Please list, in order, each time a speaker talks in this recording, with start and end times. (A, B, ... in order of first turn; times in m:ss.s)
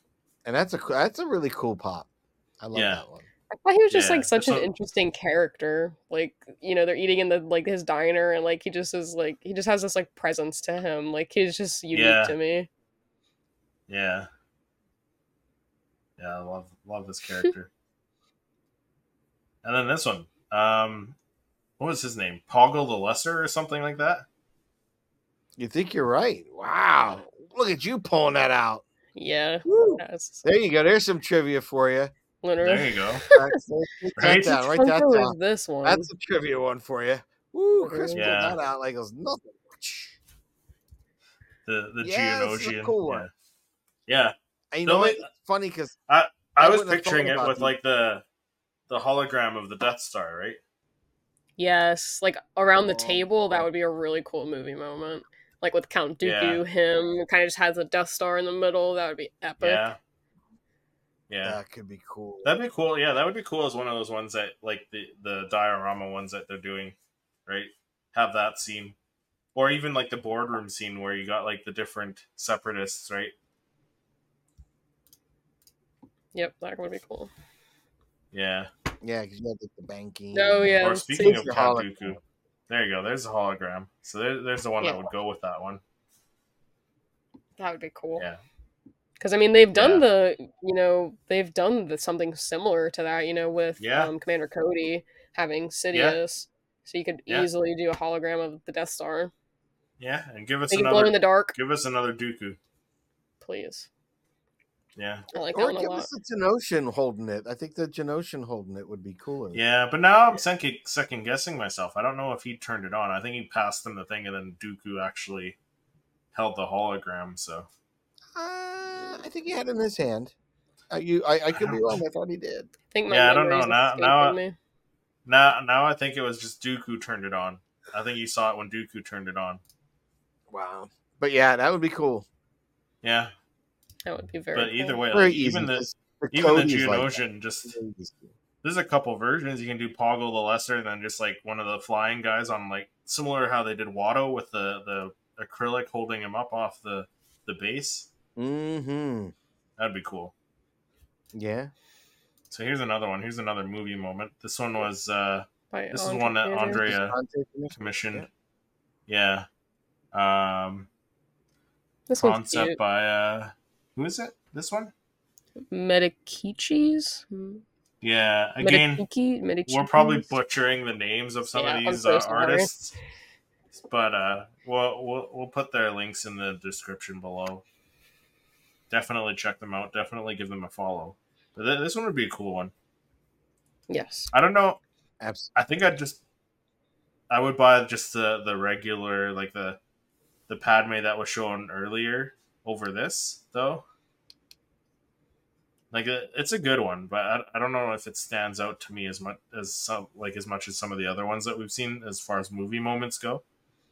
0:00.4-0:02.1 A
0:02.6-0:03.3 A
0:02.7-0:03.0 B
0:03.5-0:12.7 C
0:03.9-0:04.7 B
0:11.9-0:12.4 B
0:13.9-0:14.3 B
0:16.2-0:17.7 B
0:19.6-0:21.2 B
0:21.8-0:24.3 B
0:25.6-0:28.8 A
0:29.2-0:30.4 C
0:29.7-0:32.1 A
0:32.4-0:33.5 C
0:32.6-0:33.2 B
0:33.3-0:40.2 A
0:34.2-0:34.5 B
0:34.3-0:36.1 C
0:37.8-0:38.2 C
0:38.2-0:38.6 B
0:41.7-0:43.3 B
0:42.0-0:43.3 A
0:44.1-0:45.2 B
0:44.7-0:46.0 A
0:46.1-0:48.2 B
0:46.6-0:47.7 A
0:48.9-0:50.6 B
0:51.6-0:59.8 C
0:52.8-0:53.6 A
0:56.2-0:56.6 B
0:59.6-1:00.0 B
1:01.3-1:01.6 B
1:01.4-1:02.6 A
1:02.4-1:09.0 B
1:09.6-1:13.3 B
1:16.3-1:17.3 C
1:18.3-1:18.7 B
1:19.0-1:22.2 A
1:20.3-1:21.4 C
1:20.8-1:25.8 B
1:24.8-1:25.1 C
1:27.6-1:28.3 C
1:29.2-1:39.3 C
1:29.7-1:30.1 B
1:33.8-1:34.1 B
1:35.9-1:36.2 B
1:40.0-1:42.6 B
1:40.7-1:41.6 C
1:43.4-1:43.9 C
1:45.0-1:45.3 B
1:45.3-1:46.1 C
1:45.4-1:49.6 A
1:49.5-1:55.6 B
1:56.3-1:57.7 B
1:58.4-2:00.3 A
2:00.9-2:02.7 A
2:01.5-2:02.0 B
2:02.9-2:04.6 C
2:03.1-2:04.4 B
2:05.3-2:09.6 B
2:10.5-2:12.3 A
2:13.0-2:13.3 B
2:14.0-2:15.0 C
2:14.5-2:17.7 B
2:15.1-2:18.3 A
2:18.6-2:28.1 B
2:28.4-2:29.3 A
2:29.8-2:30.3 B
2:31.3-2:31.7 A
2:32.5-2:37.2 B
2:35.7-2:36.8 C
2:36.8-2:38.3 A
2:37.7-2:38.3 B
2:39.1-2:39.5 B
2:40.1-2:40.9 B
2:42.1-2:42.8 C
2:42.2-2:44.9 B
2:45.7-2:47.6 C
2:48.0-2:49.0 B
2:48.6-2:50.3 C
2:49.7-2:53.0 B
2:51.5-2:52.7 C
2:53.7-2:57.6 B
2:58.9-3:02.7 B
3:03.9-3:04.3 C
3:04.3-3:04.8 B
3:05.2-3:05.5 A
3:05.6-3:06.2 B
3:07.3-3:09.8 B
3:10.5-3:13.8 B
3:15.9-3:23.4 B